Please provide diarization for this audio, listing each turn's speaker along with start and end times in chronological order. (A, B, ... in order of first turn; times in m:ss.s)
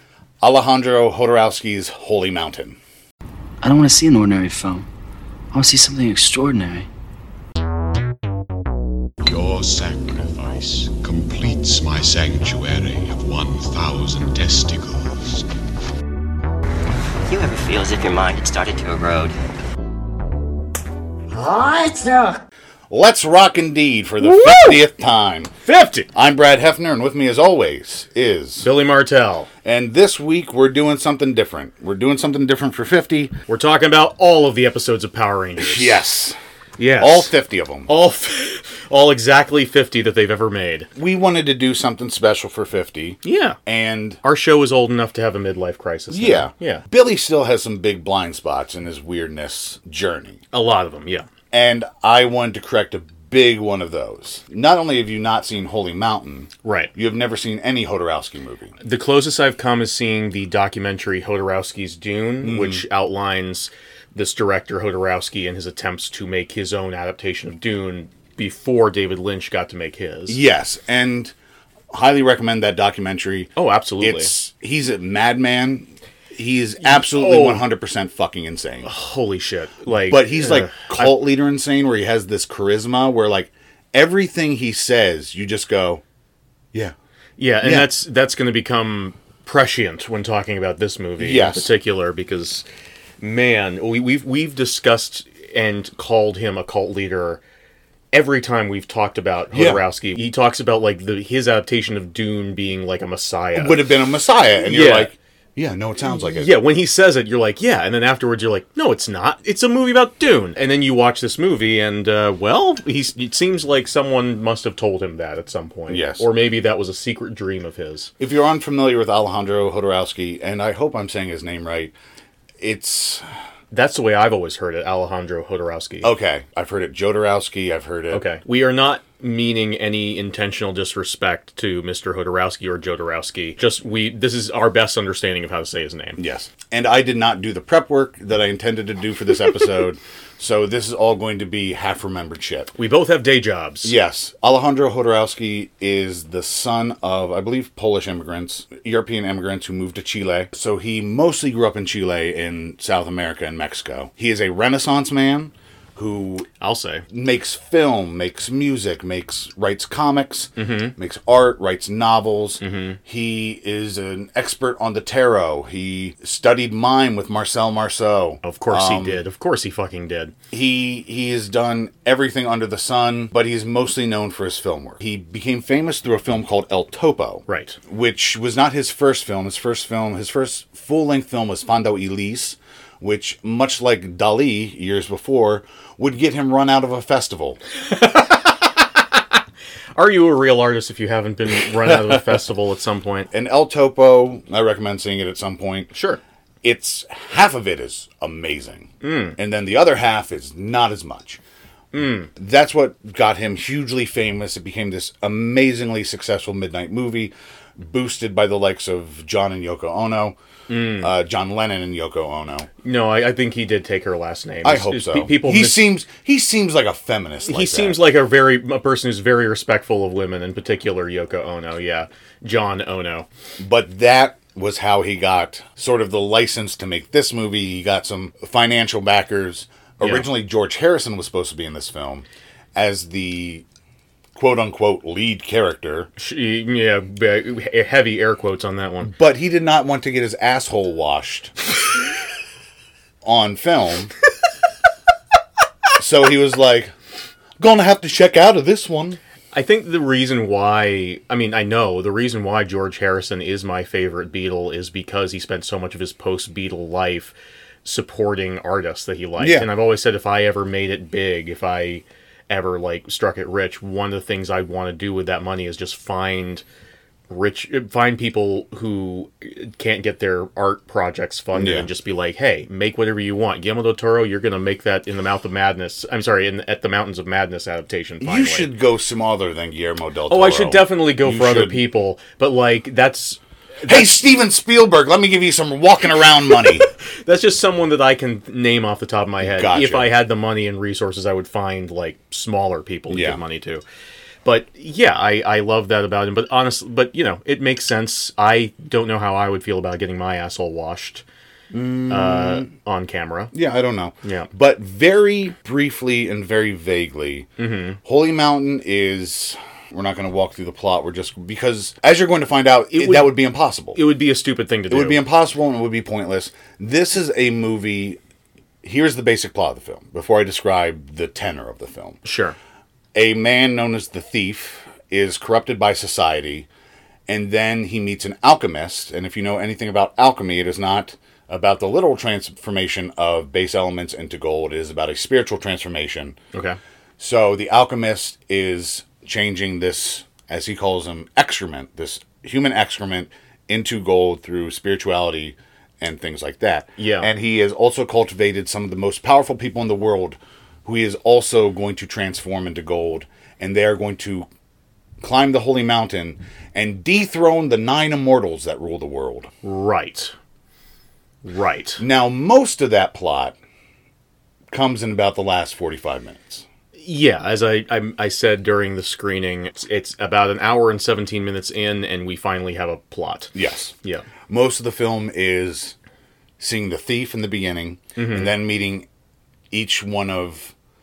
0:00.4-0:02.8 A
0:03.6-0:04.9 B
0:05.5-0:06.9 B
0:09.2-0:15.5 C
0:17.2-0:19.3 D
0:21.3-0:22.4 E
0:22.9-0:25.5 A
0:24.2-0:24.8 E
0:25.6-0:26.1 E
0:26.1-0:28.7 A
0:28.6-0:29.5 E
0:29.6-0:33.3 A
0:33.5-0:36.0 E
0:35.6-0:36.4 A
0:36.8-0:37.3 E
0:37.0-0:37.9 A
0:37.9-0:40.9 E
0:41.0-0:44.2 A
0:43.2-0:43.6 E
0:44.2-0:46.8 E
0:46.1-0:50.4 A
0:50.5-0:51.3 E
0:51.5-0:58.8 A
0:56.6-0:56.9 E
0:58.8-1:10.4 E
1:02.4-1:02.8 A
1:10.3-1:11.3 A
1:11.9-1:18.9 A
1:13.6-1:14.3 E
1:16.8-1:17.6 E
1:18.8-1:21.1 E
1:20.1-1:26.0 A
1:27.4-1:32.6 E
1:27.6-1:27.9 A
1:31.2-1:31.7 A
1:33.2-1:37.4 E
1:38.1-1:43.8 E
1:39.5-1:39.8 A
1:43.5-1:46.5 A
1:44.6-1:45.1 E
1:46.1-1:58.1 E
1:55.9-1:56.2 A
1:58.2-2:01.9 A
2:02.6-2:03.2 A
2:03.7-2:06.1 E
2:06.0-2:08.2 A
2:08.1-2:16.2 E
2:16.2-2:22.7 A
2:22.8-2:23.9 E
2:23.8-2:36.5 A
2:36.6-2:37.0 E
2:37.1-2:49.2 A
2:40.6-2:40.9 E
2:42.6-2:43.0 E
2:48.4-2:50.3 E
2:50.5-3:07.6 A
2:57.5-2:57.8 E
3:07.8-3:09.0 E
3:10.0-3:13.3 E
3:13.3-3:15.9 A
3:15.9-3:16.2 E
3:16.6-3:21.4 A
3:19.0-3:19.4 E
3:21.9-3:22.3 E
3:22.4-3:30.4 A
3:30.7-3:31.1 E
3:31.0-3:32.7 A
3:32.8-3:35.9 E
3:34.6-3:38.0 A
3:37.4-3:43.3 E
3:43.6-3:53.6 A
3:50.0-3:50.3 E
3:54.3-3:56.1 A
3:56.2-3:59.1 E
3:59.0-4:01.5 A
4:03.2-4:04.1 A
4:06.0-4:06.9 A
4:07.6-4:09.2 A
4:09.5-4:17.3 E
4:17.8-4:26.6 E
4:19.4-4:19.7 A
4:27.3-4:38.7 E
4:31.5-4:31.9 A
4:38.2-4:41.8 A
4:40.3-4:44.1 E
4:43.8-4:46.9 A
4:47.0-4:53.8 E
4:49.4-4:50.1 A
4:53.1-4:53.4 A
4:54.4-5:01.2 E
5:01.7-5:02.7 A
5:02.1-5:03.5 E
5:03.5-5:07.5 A
5:04.2-5:04.5 E
5:07.6-5:08.0 E
5:08.0-5:14.0 A
5:12.9-5:13.4 E
5:13.9-5:15.2 E
5:14.9-5:18.2 A
5:18.8-5:22.2 A
5:22.2-5:22.6 E
5:23.1-5:26.7 A
5:27.3-5:36.4 A
5:37.2-5:54.5 A
5:47.0-5:47.3 E
5:55.2-5:59.5 A
5:59.6-6:00.3 E
6:01.4-6:02.0 E
6:02.0-6:03.6 A
6:04.7-6:06.6 A
6:07.0-6:14.2 E
6:13.5-6:13.9 A
6:14.5-6:15.9 A
6:16.6-6:19.1 A
6:18.2-6:18.5 E
6:19.7-6:20.7 A